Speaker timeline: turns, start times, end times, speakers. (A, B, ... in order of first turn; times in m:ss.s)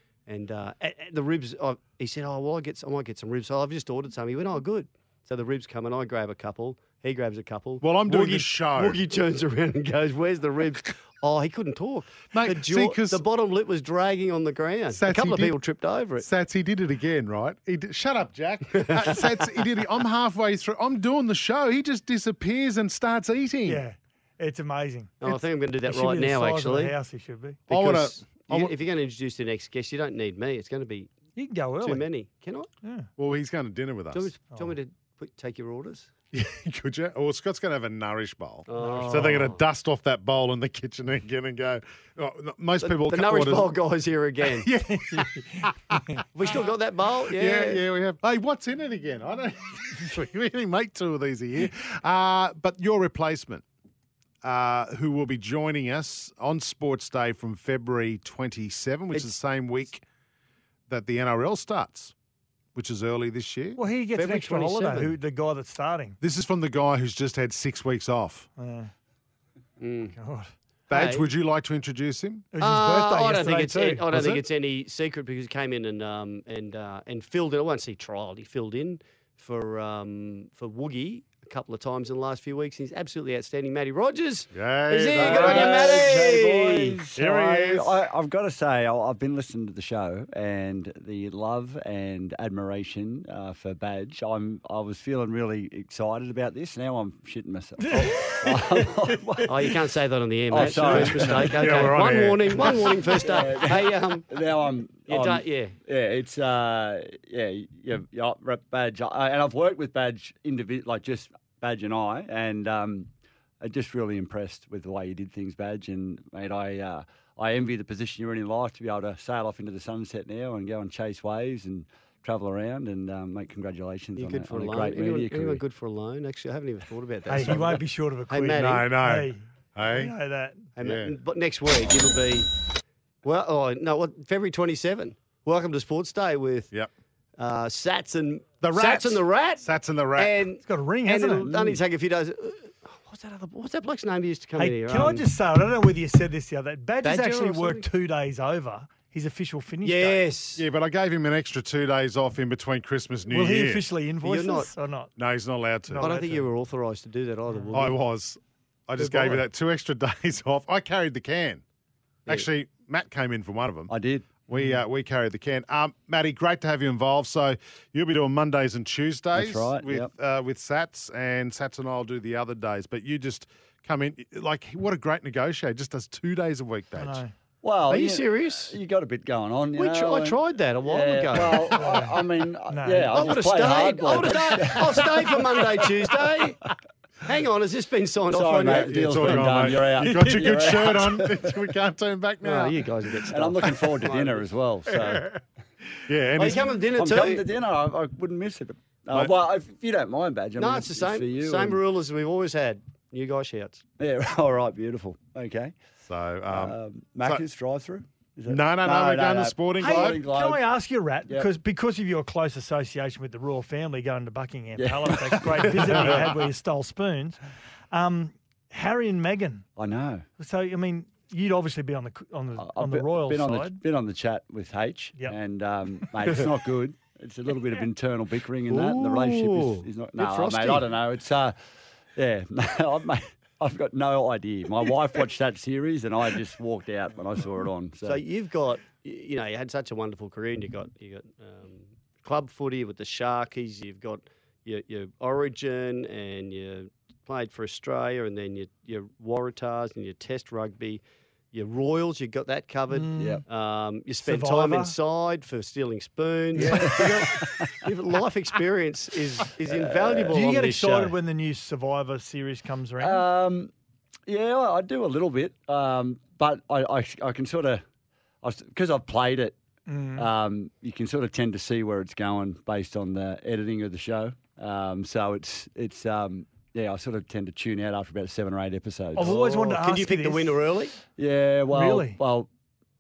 0:00.3-0:16.3 A
0:07.8-0:09.0 B
0:12.3-0:13.2 B
0:14.9-0:15.6 B
0:16.2-0:23.8 B
0:18.7-0:19.6 A
0:23.7-0:27.6 C
0:25.2-0:27.0 A
0:27.7-0:31.1 A
0:27.7-0:28.7 B
0:31.4-0:32.1 C
0:31.8-0:32.7 A
0:32.8-0:33.1 C
0:33.2-0:34.3 B
0:34.1-0:36.1 A
0:36.3-0:43.7 B
0:38.7-0:39.6 A
0:38.8-0:39.5 C
0:42.8-0:44.7 A
0:44.6-0:46.0 B
0:46.4-0:47.8 A
0:47.3-0:53.6 B
0:54.4-1:00.0 B
1:00.9-1:02.1 B
1:02.8-1:03.8 B
1:03.8-1:06.2 C
1:04.2-1:05.2 A
1:06.2-1:08.5 B
1:08.6-1:08.9 C
1:09.8-1:10.2 A
1:10.2-1:10.5 C
1:10.9-1:12.5 B
1:10.9-1:11.3 A
1:12.5-1:14.2 C
1:12.6-1:27.0 A
1:24.5-1:26.4 B
1:25.1-1:39.8 D
1:27.2-1:28.0 B
1:37.8-1:38.6 C
1:39.4-1:44.3 A
1:40.5-1:42.0 D
1:40.6-1:43.0 B
1:43.2-1:53.1 D
1:45.1-1:45.8 A
1:53.6-2:05.6 D
2:04.2-2:08.9 A
2:07.3-2:10.7 C
2:08.5-2:10.1 B
2:10.8-2:12.5 A
2:10.8-2:11.1 B
2:13.2-2:16.7 A
2:17.4-2:25.3 A
2:18.6-2:20.4 B
2:20.6-2:21.8 C
2:24.6-2:30.3 C
2:27.0-2:27.9 A
2:29.8-2:30.6 A
2:30.6-2:33.8 B
2:33.3-2:35.1 C
2:34.2-2:34.7 A
2:35.2-2:36.1 B
2:35.9-2:36.5 C
2:36.0-2:38.0 A
2:37.5-2:37.9 C
2:37.7-2:41.6 B
2:39.0-2:39.4 A
2:42.3-2:57.2 B
2:43.9-2:44.4 D
2:44.5-2:44.8 C
2:49.3-2:50.1 D
2:57.0-2:57.3 C
2:57.6-3:05.4 D
2:57.9-2:58.8 A
2:59.7-3:01.8 A
3:01.7-3:03.3 C
3:03.1-3:06.6 A
3:07.2-3:09.5 A
3:08.3-3:11.6 D
3:08.6-3:12.8 B
3:12.4-3:14.5 A
3:13.3-3:15.4 D
3:16.1-3:16.8 B
3:16.4-3:17.5 A
3:16.9-3:21.8 D
3:20.6-3:23.8 A
3:24.0-3:25.7 D
3:26.1-3:27.5 B
3:26.5-3:30.6 D
3:28.5-3:30.2 B
3:29.8-3:37.4 C
3:34.8-3:36.2 D
3:35.6-3:36.3 B
3:37.9-3:39.6 C
3:39.8-3:40.2 D
3:40.4-3:43.8 C
3:42.6-3:51.6 D
3:48.7-3:50.8 A
3:52.2-3:58.2 D
3:58.0-4:21.2 A
4:12.9-4:13.4 C
4:13.2-4:13.4 D
4:14.2-4:14.9 C
4:16.6-4:16.9 C
4:16.7-4:17.7 D
4:19.7-4:20.4 D
4:20.3-4:23.3 C
4:23.0-4:23.7 D
4:24.3-4:27.8 D
4:28.4-4:29.6 D
4:29.9-4:30.3 C
4:30.2-4:39.6 D
4:39.1-4:40.6 C
4:39.2-4:41.0 A
4:41.2-4:42.5 D
4:41.7-4:42.2 C